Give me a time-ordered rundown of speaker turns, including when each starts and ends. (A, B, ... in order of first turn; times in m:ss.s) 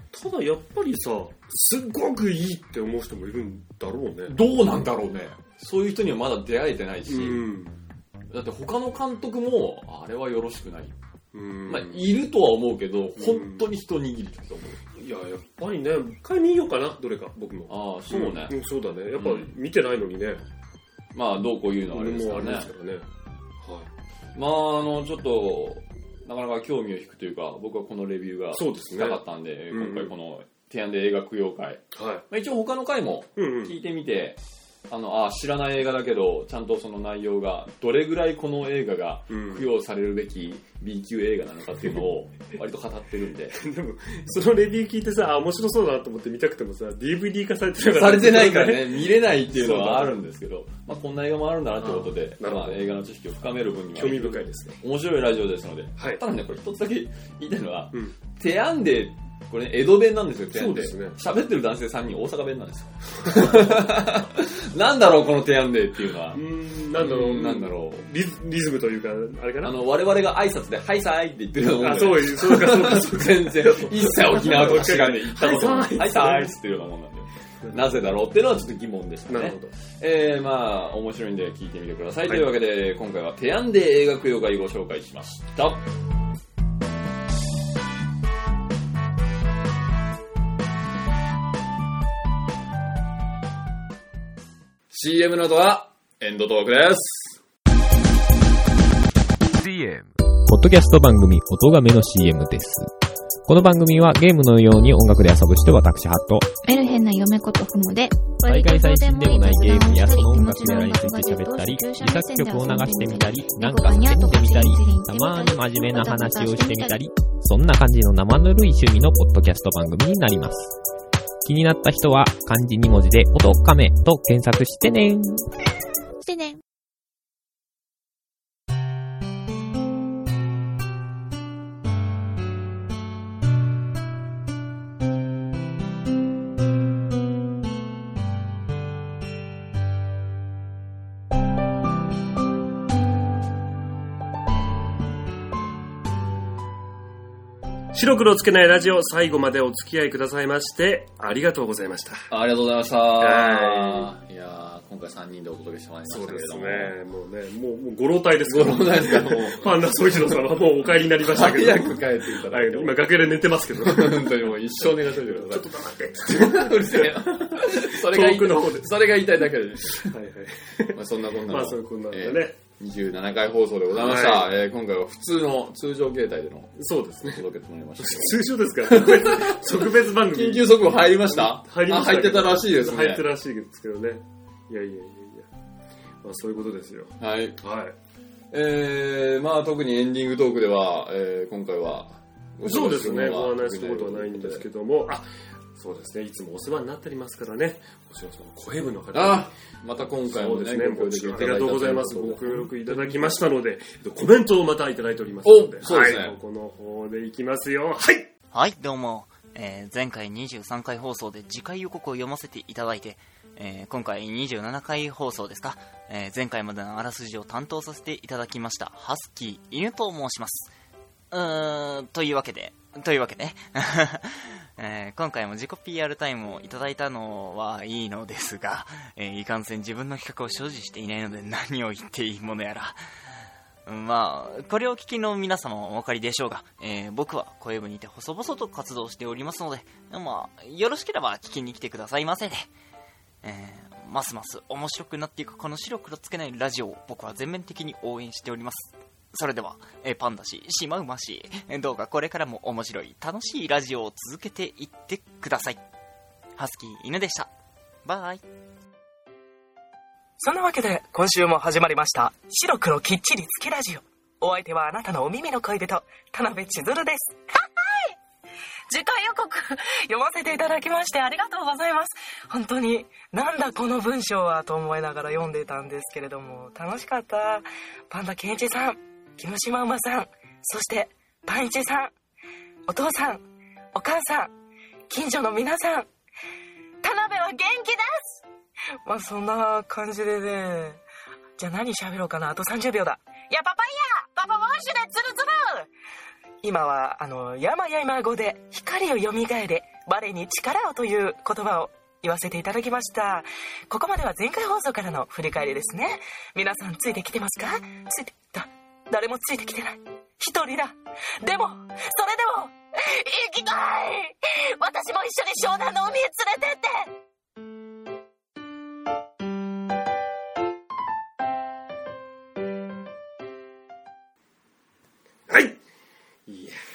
0:00.1-0:04.4 A
0:04.3-0:07.5 B
0:07.0-0:07.8 A
0:08.3-0:10.9 B
0:11.3-0:12.1 A
0:11.7-0:14.8 B
0:13.2-0:13.7 A
0:14.9-0:20.4 A
0:17.7-0:18.6 B
0:19.2-0:19.5 B
0:21.1-0:22.7 B
0:21.9-0:23.1 A
0:23.6-0:23.9 A
0:24.4-0:43.6 B
0:28.5-0:30.1 A
0:31.9-0:32.2 A
0:33.4-0:33.7 A
0:39.3-0:39.7 A
0:43.5-0:50.2 A
0:47.8-1:06.4 B
0:51.8-0:52.9 A
0:53.9-0:54.8 A
0:56.0-0:56.2 A
1:00.5-1:01.2 A
1:03.2-1:03.8 A
1:06.3-1:09.8 A
1:07.0-1:08.1 B
1:09.6-1:25.8 B
1:11.8-1:16.5 A
1:17.6-1:17.9 A
1:19.3-1:19.7 A
1:34.9-1:37.4 B
1:40.4-1:42.9 C
1:43.5-1:46.5 C
1:46.6-1:57.1 D
1:48.4-2:00.7 C
2:01.4-2:05.4 C
2:06.2-2:06.6 D
2:27.9-2:32.3 A
2:32.3-2:36.9 B
2:33.2-2:34.1 A
2:36.1-2:49.0 A
2:38.4-2:40.0 B
2:41.2-2:45.7 B
2:46.2-2:50.1 B
2:49.9-2:52.6 A
2:50.9-3:03.2 B
2:53.9-2:54.5 A
2:56.8-2:57.4 A
2:58.0-3:05.5 A
3:06.2-3:07.9 A
3:07.2-3:07.6 B
3:08.5-3:14.6 B
3:12.6-3:19.5 A
3:19.1-3:23.4 B
3:20.2-3:28.3 A
3:25.4-3:26.4 B
3:28.5-3:40.7 E
3:41.3-3:53.0 E
3:53.8-4:02.7 E
4:03.4-4:15.8 E
4:16.6-4:17.5 E
4:18.0-4:18.4 E
4:20.4-4:28.1 F
4:28.9-4:42.1 F
4:42.9-4:44.5 F
4:45.1-4:46.1 F
4:47.0-4:48.4 F
4:49.0-4:51.0 F
4:51.6-4:55.9 F
4:56.6-5:17.1 F
5:25.5-5:25.8 A
5:26.5-5:26.8 A